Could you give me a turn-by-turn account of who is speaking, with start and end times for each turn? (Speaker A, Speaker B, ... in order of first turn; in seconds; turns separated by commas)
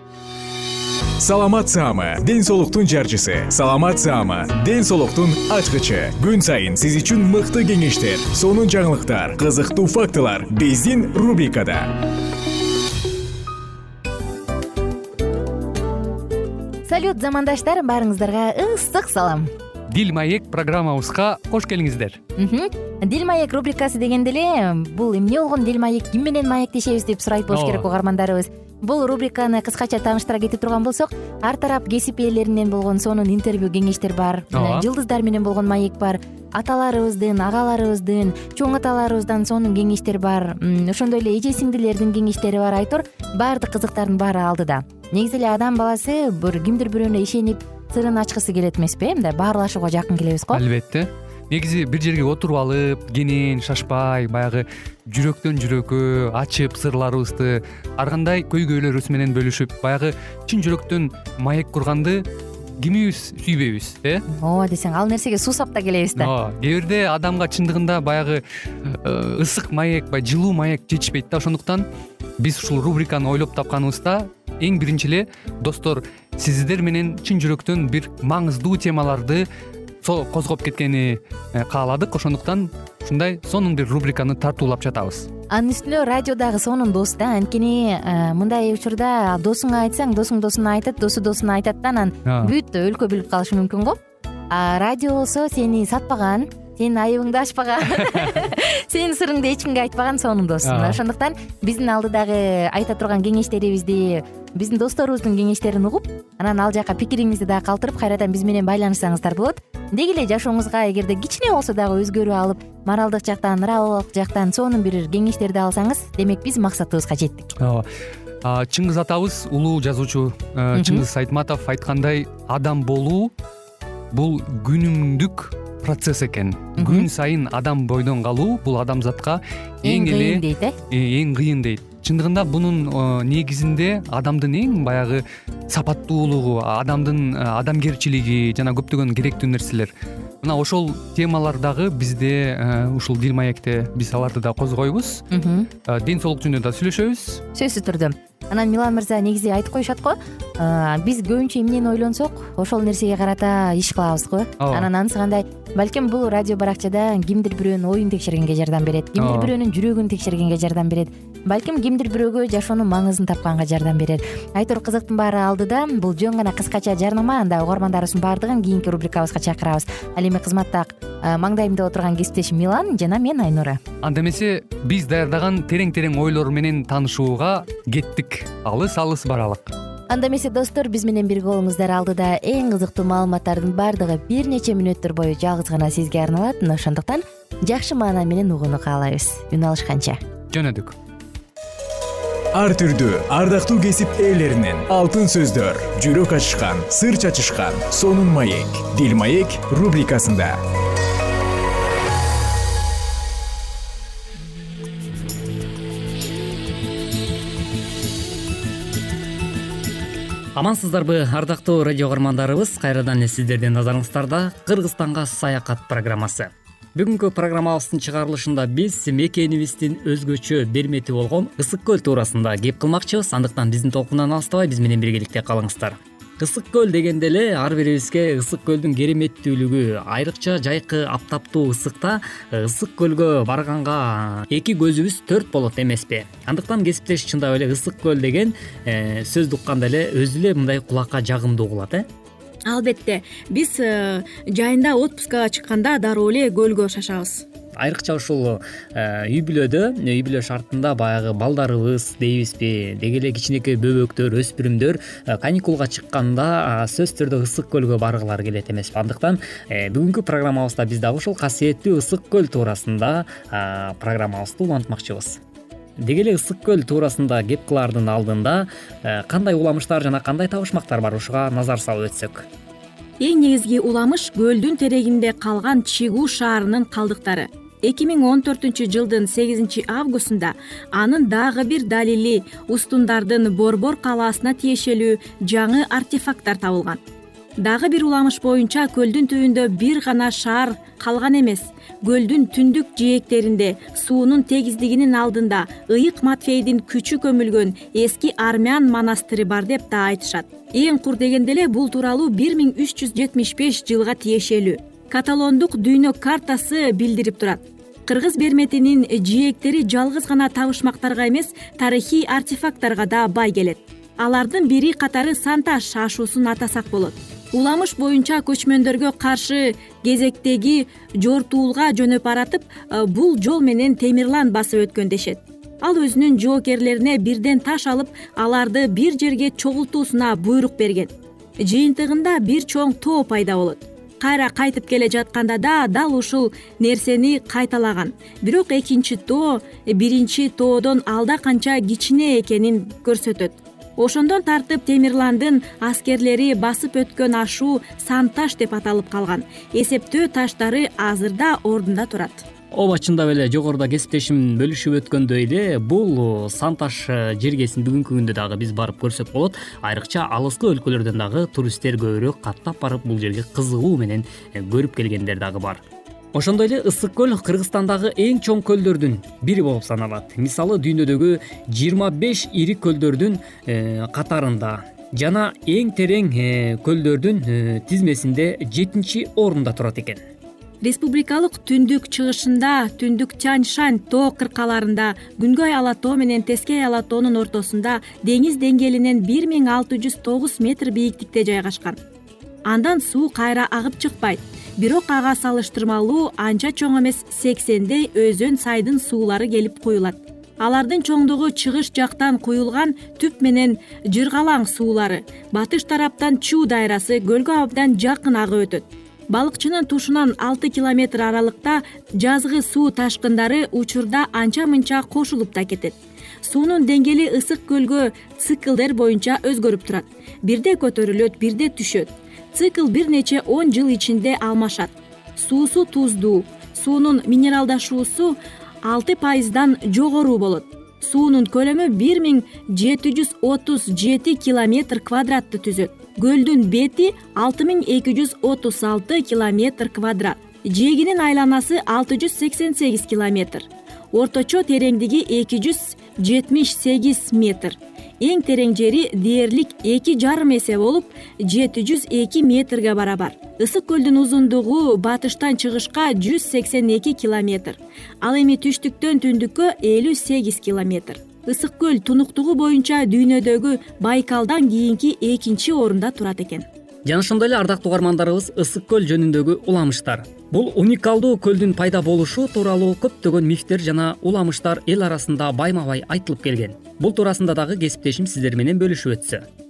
Speaker A: 1.2-12.0, Speaker B: 16.9-19.5, Speaker C: 19.9-22.2, Speaker B: 22.4-50.6, Speaker C: 27.5-27.8, Speaker C: 34.5-34.9, Speaker C: 50.5-62.2, Speaker C: 62.8-64.2, Speaker B: 64.3-66.3, Speaker C: 66.2-71.9, Speaker C: 72.4-79.5, Speaker C: 80.0-85.3, Speaker B: 85.5-94.0, Speaker C: 92.3-92.5, Speaker B: 94.5-117.5, Speaker C: 100.6-101.0, Speaker C: 117.6-117.9, Speaker C: 118.4-123.3, Speaker B: 120.7-121.0, Speaker C: 124.1-139.9, Speaker B: 126.8-127.1, Speaker B: 129.8-130.7, Speaker C: 140.4-145.2, Speaker B: 145.3-145.7, Speaker C: 145.9-147.4, Speaker B: 147.5-173.8, Speaker C: 154.6-154.9, Speaker C: 159.2-159.5, Speaker C: 174.0-179.7, Speaker B: 180.1-190.2, Speaker C: 190.5-190.9, Speaker A: 192.5-200.6, Speaker D: 210.6-242.1, Speaker E: 242.7-247.4, Speaker D: 247.8-265.4, Speaker D: 266.0-272.4, Speaker E: 273.2-287.0, Speaker E: 287.6-352.4, Speaker D: 352.7-365.8, Speaker D: 366.3-380.2, Speaker E: 380.8-392.0, Speaker E: 392.7-466.7, Speaker D: 467.1-479.4